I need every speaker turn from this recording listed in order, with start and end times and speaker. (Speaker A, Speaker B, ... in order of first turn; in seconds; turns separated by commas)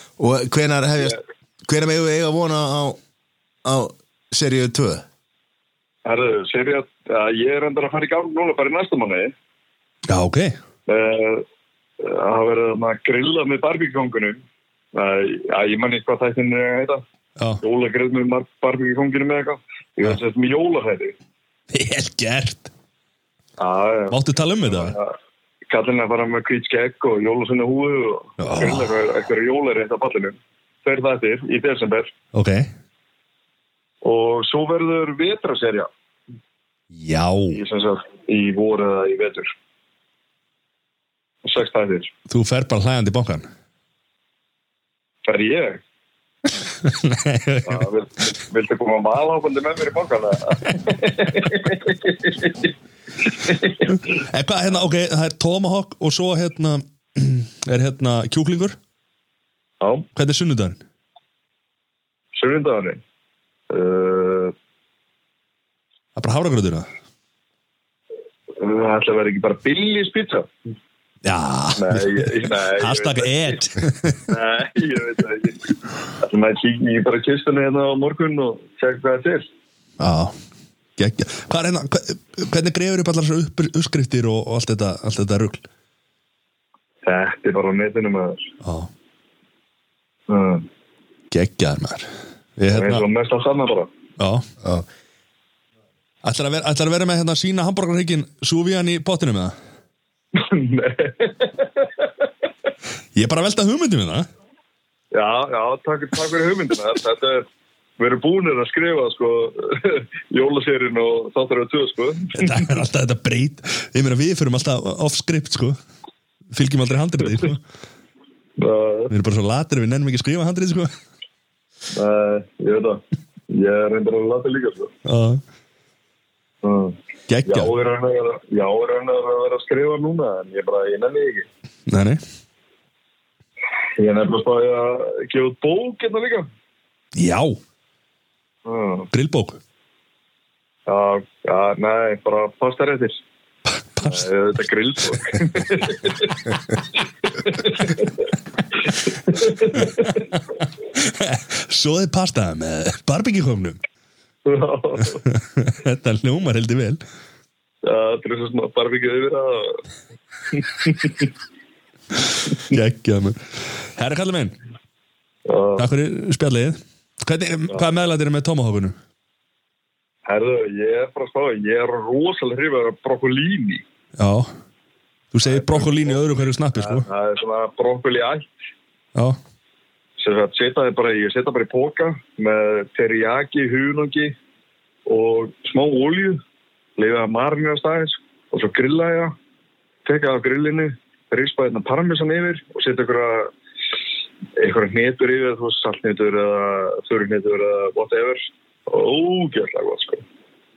Speaker A: 0.2-3.0, Speaker A: 3.6-5.0, Speaker B: 6.0-9.3, Speaker C: 10.1-10.6, Speaker B: 10.9-11.4, Speaker B: 12.0-14.4, Speaker B: 14.9-17.0, Speaker B: 17.6-21.1, Speaker C: 21.7-22.7, Speaker B: 23.6-25.1, Speaker C: 24.1-24.9, Speaker B: 25.7-32.1, Speaker C: 28.4-28.9, Speaker C: 32.3-32.7, Speaker B: 34.0-35.9, Speaker C: 36.9-37.6, Speaker B: 37.5-39.5, Speaker B: 41.4-42.1, Speaker C: 42.3-43.5, Speaker B: 45.2-45.8, Speaker C: 46.6-47.9, Speaker B: 47.6-52.7, Speaker B: 53.2-53.9, Speaker C: 53.8-58.8, Speaker B: 59.8-60.1, Speaker C: 60.1-60.8, Speaker B: 62.3-63.0, Speaker B: 63.7-64.5, Speaker C: 66.2-66.9, Speaker B: 68.5-70.5, Speaker C: 71.2-74.3, Speaker B: 71.8-73.6, Speaker B: 74.3-79.5, Speaker C: 80.0-80.3, Speaker C: 81.0-85.6, Speaker B: 87.0-88.5, Speaker C: 88.6-88.9, Speaker B: 90.3-90.7, Speaker C: 91.3-93.0, Speaker B: 92.7-93.9, Speaker C: 94.2-94.5, Speaker C: 96.2-99.5, Speaker B: 100.3-102.1, Speaker C: 103.2-104.3, Speaker B: 105.1-107.5, Speaker B: 108.0-112.7, Speaker C: 112.3-115.8, Speaker C: 116.5-117.6, Speaker B: 118.6-119.1, Speaker C: 119.1-120.9, Speaker B: 121.9-124.9, Speaker C: 125.0-125.4, Speaker B: 126.6-131.5, Speaker C: 127.3-127.7, Speaker C: 131.9-132.2, Speaker B: 134.0-136.5, Speaker C: 137.1-137.6, Speaker B: 138.6-139.1, Speaker C: 139.1-139.6, Speaker B: 140.9-143.2, Speaker C: 143.7-144.3, Speaker B: 144.0-146.5, Speaker B: 147.2-148.3, Speaker B: 148.8-150.2, Speaker C: 149.5-153.8, Speaker B: 154.4-155.2, Speaker C: 155.1-157.0, Speaker B: 157.8-159.8, Speaker B: 160.5-161.3, Speaker C: 162.2-164.5, Speaker B: 165.4-165.8, Speaker C: 165.8-168.9, Speaker B: 170.2-173.8, Speaker C: 174.2-174.5, Speaker C: 175.3-177.1, Speaker B: 175.4-176.2, Speaker B: 176.8-178.5, Speaker B: 180.2-184.3, Speaker B: 185.1-186.4, Speaker B: 187.0-189.3, Speaker B: 190.0-193.5, Speaker B: 194.6-200.2